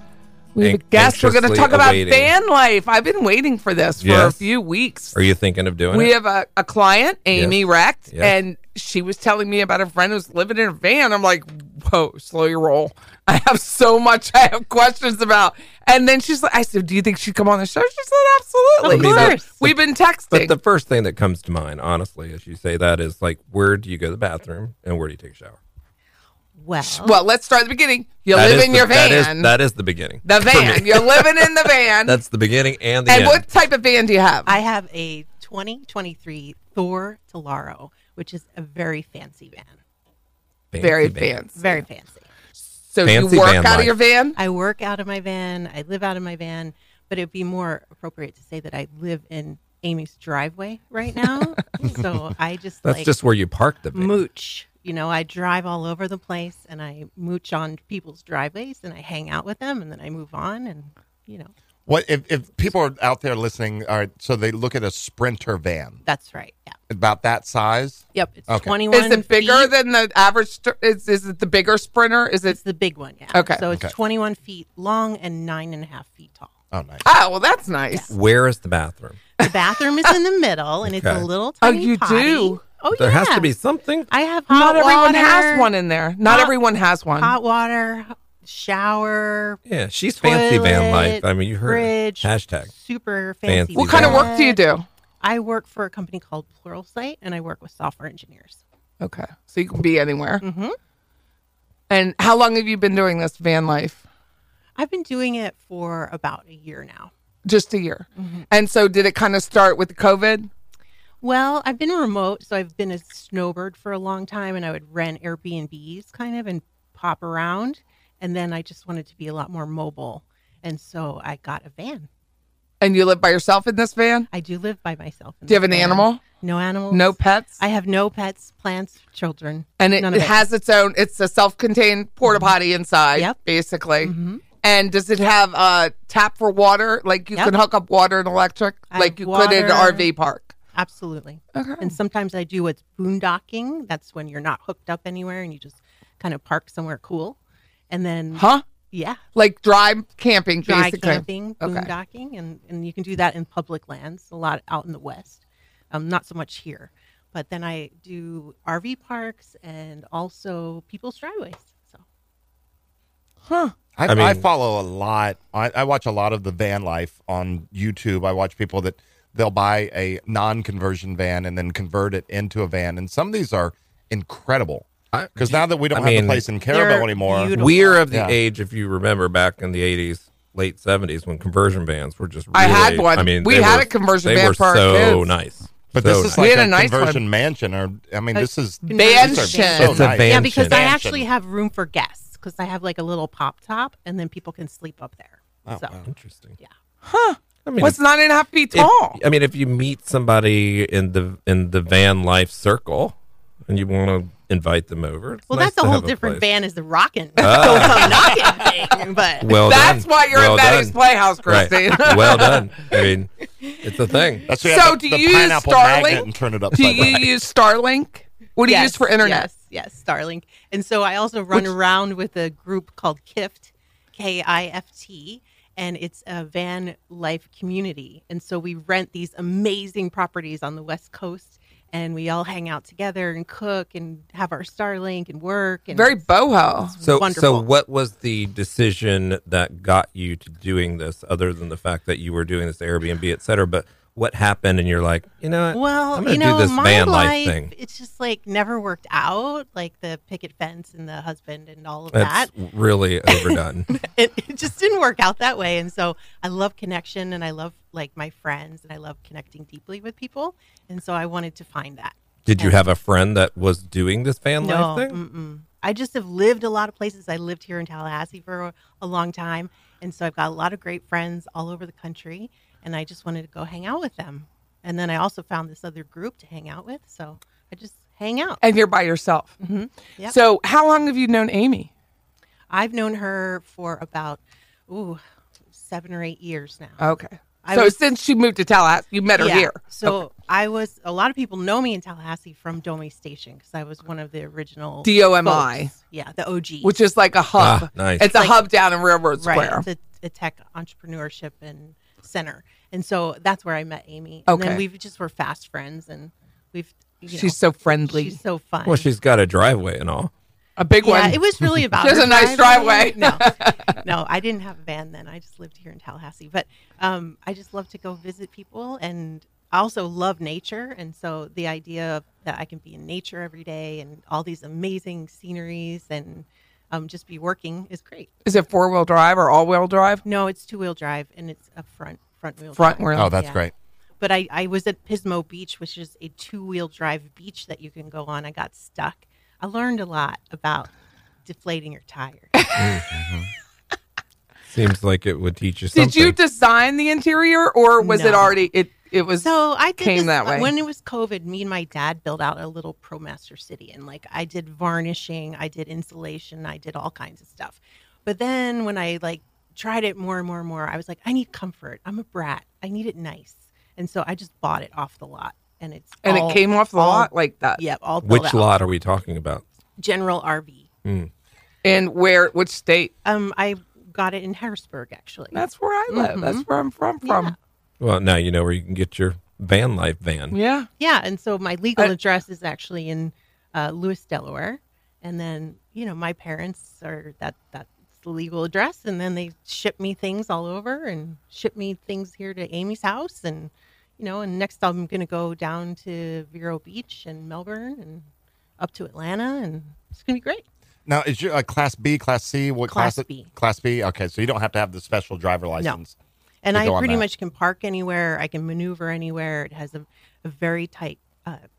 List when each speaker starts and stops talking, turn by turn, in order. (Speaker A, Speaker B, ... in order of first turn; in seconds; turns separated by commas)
Speaker A: 0.5-5.2, Speaker B: 0.6-2.3, Speaker B: 4.0-4.4, Speaker B: 5.1-6.1, Speaker A: 5.9-20.6, Speaker B: 7.3-8.4, Speaker C: 18.8-19.5, Speaker B: 18.8-19.8, Speaker B: 20.3-25.6, Speaker C: 26.6-27.2, Speaker A: 26.8-29.5, Speaker B: 28.3-33.5, Speaker A: 30.2-32.2, Speaker A: 33.1-34.5, Speaker C: 34.5-39.8, Speaker B: 40.7-41.3, Speaker A: 40.8-41.8, Speaker C: 41.6-42.2, Speaker A: 42.9-44.4, Speaker B: 43.0-44.0, Speaker C: 44.4-53.1, Speaker B: 52.8-54.2, Speaker C: 53.9-61.5, Speaker D: 61.9-66.0, Speaker C: 66.0-66.8, Speaker D: 66.9-68.8, Speaker C: 68.1-69.7, Speaker A: 68.9-72.6, Speaker C: 72.5-76.5, Speaker A: 73.3-73.6, Speaker D: 76.7-77.0, Speaker A: 77.0-78.1, Speaker B: 78.1-79.2, Speaker C: 79.4-83.5, Speaker B: 80.8-81.3, Speaker A: 81.6-82.6, Speaker B: 82.9-84.1, Speaker C: 84.1-85.7, Speaker A: 84.5-87.3, Speaker C: 86.2-86.5, Speaker C: 87.1-89.6, Speaker B: 89.7-92.7, Speaker C: 90.2-94.6, Speaker B: 93.5-94.3, Speaker A: 93.8-94.8, Speaker C: 95.2-98.6, Speaker A: 99.0-100.4, Speaker C: 100.4-100.8, Speaker A: 101.9-104.0, Speaker C: 104.8-107.1, Speaker A: 107.4-110.5, Speaker C: 108.2-108.5, Speaker C: 111.2-122.1, Speaker A: 122.8-124.3, Speaker C: 124.3-130.3, Speaker A: 125.5-126.2, Speaker A: 126.9-127.6, Speaker A: 129.8-140.5, Speaker C: 132.2-132.5, Speaker C: 134.0-134.4, Speaker C: 138.9-140.1, Speaker C: 140.7-147.4, Speaker A: 141.5-141.9, Speaker C: 147.9-149.2, Speaker A: 148.3-148.6, Speaker A: 149.3-151.9, Speaker C: 150.6-162.0, Speaker A: 163.5-163.7, Speaker D: 164.0-178.3, Speaker B: 164.1-164.4, Speaker B: 175.1-176.4, Speaker C: 176.7-178.0, Speaker B: 177.5-186.4, Speaker A: 182.5-185.3, Speaker D: 185.9-191.3, Speaker A: 186.3-187.2, Speaker C: 188.3-195.9, Speaker A: 188.9-190.1, Speaker B: 189.8-190.8, Speaker D: 195.7-196.1, Speaker B: 196.1-196.6, Speaker A: 197.0-199.2, Speaker B: 197.6-198.0, Speaker B: 198.7-206.4, Speaker C: 205.5-209.6, Speaker B: 207.4-208.3, Speaker A: 207.6-208.0, Speaker B: 209.4-214.5, Speaker A: 209.6-212.7, Speaker D: 214.5-217.3, Speaker A: 214.6-219.5, Speaker B: 216.8-217.1, Speaker C: 218.6-237.7, Speaker A: 235.9-236.9, Speaker B: 237.0-247.7, Speaker C: 245.7-252.5, Speaker B: 252.1-253.9, Speaker C: 253.3-262.8, Speaker B: 262.4-265.2, Speaker C: 264.6-278.6, Speaker A: 278.6-279.5, Speaker C: 279.6-280.4, Speaker A: 280.3-281.9, Speaker C: 282.7-285.2, Speaker C: 285.7-287.0, Speaker A: 287.0-289.8, Speaker C: 287.6-287.9, Speaker C: 289.4-296.9, Speaker A: 295.0-295.9, Speaker A: 296.8-299.9, Speaker B: 297.6-298.3, Speaker C: 298.2-298.6, Speaker C: 299.4-309.1, Speaker A: 304.5-304.8, Speaker A: 307.3-308.4, Speaker B: 308.8-310.3, Speaker A: 310.8-311.4, Speaker C: 311.0-328.3, Speaker A: 312.0-313.9, Speaker A: 328.4-330.2, Speaker C: 330.2-333.6, Speaker A: 332.7-333.3, Speaker D: 333.1-333.7, Speaker C: 334.2-340.9, Speaker C: 341.4-342.7, Speaker B: 342.8-343.0, Speaker D: 343.1-343.5, Speaker B: 344.7-346.4, Speaker A: 345.9-350.7, Speaker C: 348.0-348.6, Speaker C: 349.4-368.7, Speaker A: 366.2-367.8, Speaker B: 368.2-369.6, Speaker C: 370.0-370.9, Speaker B: 371.0-371.3, Speaker A: 371.8-373.1, Speaker C: 373.2-376.6, Speaker A: 375.5-377.5, Speaker C: 377.2-377.5, Speaker B: 378.0-380.6, Speaker A: 380.5-380.9, Speaker C: 381.0-398.2, Speaker C: 398.8-400.6, Speaker D: 401.1-406.1, Speaker C: 402.9-403.5, Speaker C: 406.6-411.6, Speaker D: 406.7-407.2